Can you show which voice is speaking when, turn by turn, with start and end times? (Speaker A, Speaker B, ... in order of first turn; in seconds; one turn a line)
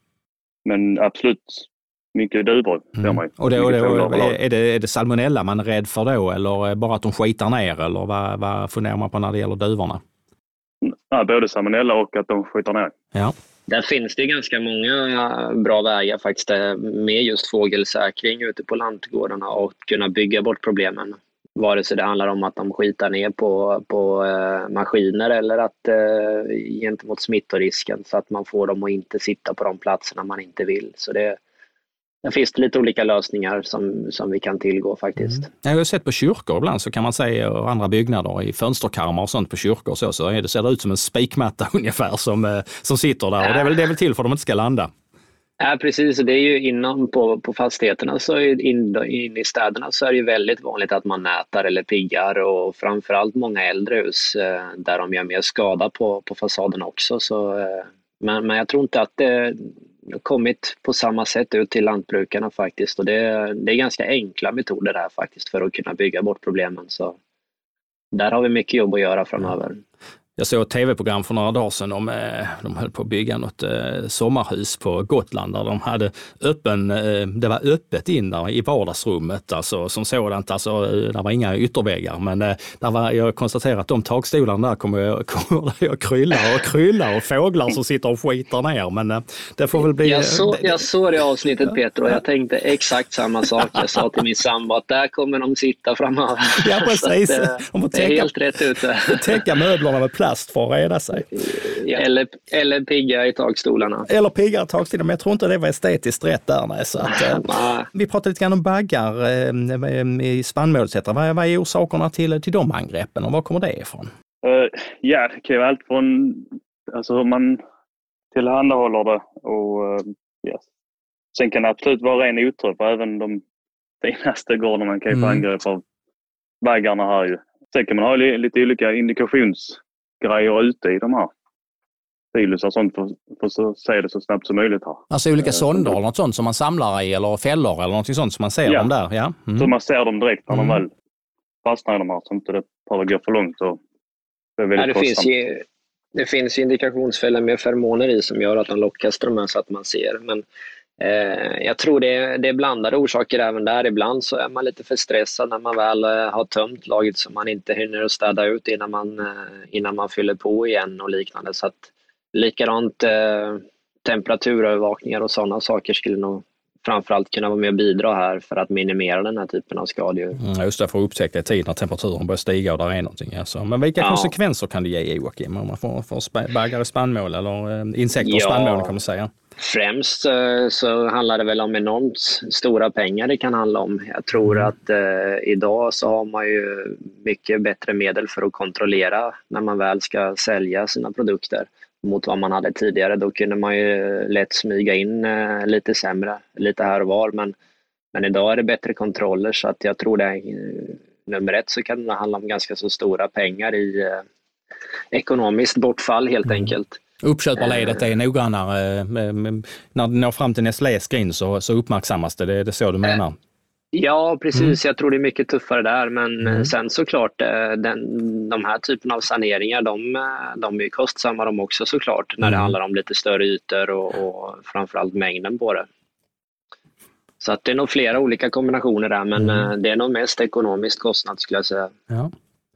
Speaker A: 0.6-4.3
Speaker B: 3.0-10.0
Speaker A: 10.8-12.9
Speaker C: 13.7-31.4
Speaker C: 32.2-35.5
Speaker B: 35.4-44.9
Speaker C: 43.4-43.7
Speaker C: 45.6-67.2
Speaker C: 68.1-69.8
Speaker B: 70.4-90.8
Speaker C: 90.0-99.5
Speaker B: 96.6-98.3
Speaker B: 99.0-101.5
Speaker C: 101.4-104.1
Speaker B: 104.1-114.1
Speaker C: 107.0-107.9
Speaker A: 114.4-117.6
Speaker A: 118.3-120.7
Speaker A: 121.3-123.4
Speaker A: 124.0-125.8
Speaker B: 125.1-125.5
Speaker A: 126.6-131.3
Speaker A: 132.3-136.0
Speaker B: 135.1-139.7
Speaker A: 138.7-138.9
Speaker A: 139.6-140.9
Speaker B: 140.5-140.8
Speaker A: 141.6-143.8
Speaker A: 144.6-145.3
Speaker C: 144.8-150.4
Speaker C: 151.0-170.4
Speaker B: 170.4-179.3
Speaker C: 174.0-174.3
Speaker C: 178.2-178.9
Speaker C: 179.6-197.5
Speaker C: 198.1-204.2
Speaker C: 205.1-207.0
Speaker B: 207.2-213.3
Speaker C: 207.6-208.0
Speaker C: 213.9-225.9
Speaker B: 222.4-222.7
Speaker C: 227.4-231.9
Speaker B: 229.4-229.7